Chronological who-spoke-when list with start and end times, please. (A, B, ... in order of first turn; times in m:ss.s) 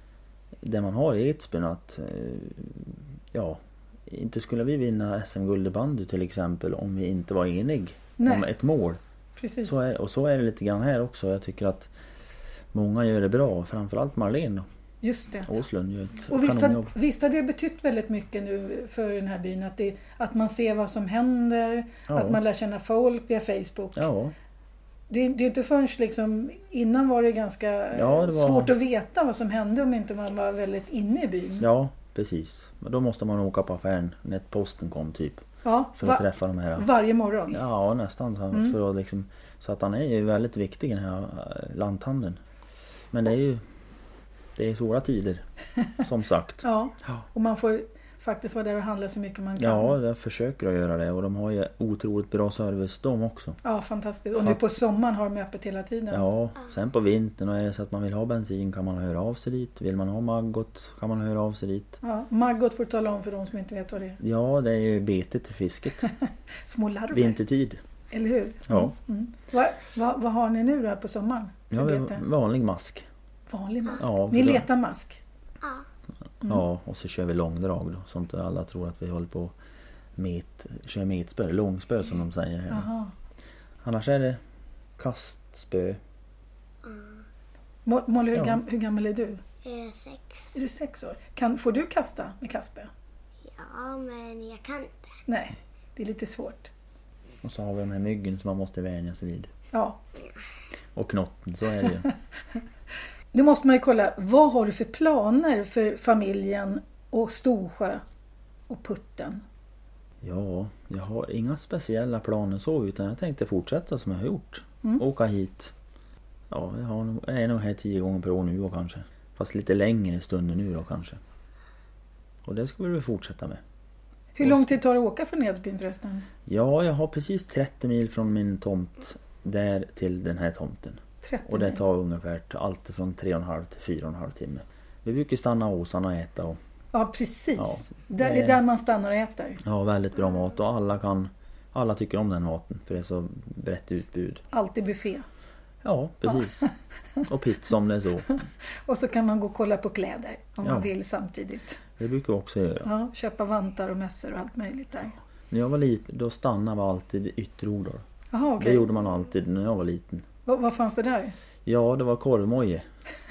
0:00.6-0:09.0 A
0:08.2-0:08.4 B
0:09.4-0:09.8 B
0:09.6-0:11.9 A
0:12.7-0:14.6 A
0:15.0-0:15.5 B
0:15.4-0:16.9 A
0:16.3-0:24.1 B
0:22.1-0:22.4 A
0:24.0-0:24.3 A
0:25.1-0:31.7 B
0:27.9-0:28.7 A
0:31.6-0:35.4 A
0:35.6-0:36.2 B
0:36.0-0:36.9 A
0:36.8-0:37.6 B
0:37.5-0:42.4 A
0:43.1-0:43.6 A
0:44.6-0:45.4 A
0:46.0-0:47.2 A
0:46.6-0:50.0 B
0:49.6-0:53.6 A
0:53.6-0:56.2 B
0:56.1-1:02.0 A
1:02.0-1:04.2 B
1:04.2-1:06.0 A
1:06.6-1:07.4 B
1:07.1-1:07.8 A
1:08.1-1:12.2 B
1:08.7-1:08.9 A
1:11.7-1:13.0 A
1:13.5-1:15.2 B
1:14.0-1:14.7 A
1:16.4-1:19.5 A
1:20.2-1:22.9 A
1:22.7-1:23.1 B
1:23.8-1:24.4 A
1:25.0-1:26.0 A
1:26.8-1:27.2 C
1:27.8-1:29.4 B
1:29.6-1:30.6 C
1:30.5-1:32.9 B
1:33.4-1:35.0 C
1:35.3-1:36.7 B
1:37.4-1:39.5 A
1:39.7-1:40.0 B
1:40.9-1:42.1 A
1:43.3-1:48.0 B
1:48.7-1:49.4 B
1:50.2-1:55.7 A
1:56.5-2:01.2 A
2:02.4-2:03.6 A
2:04.4-2:06.2 B
2:04.4-2:04.7 A
2:06.5-2:16.6 A
2:11.2-2:11.8 B
2:16.9-2:19.6 B
2:17.6-2:18.6 A
2:19.6-2:24.4 A
2:24.5-2:25.2 B
2:25.8-2:26.7 A
2:27.2-2:28.4 A
2:28.8-2:31.8 B
2:30.6-2:30.9 A
2:32.0-2:32.9 A
2:32.8-2:35.2 B
2:35.5-2:38.0 A
2:38.3-2:38.9 B
2:38.6-2:40.2 A
2:40.4-2:41.3 B
2:41.6-2:42.8 A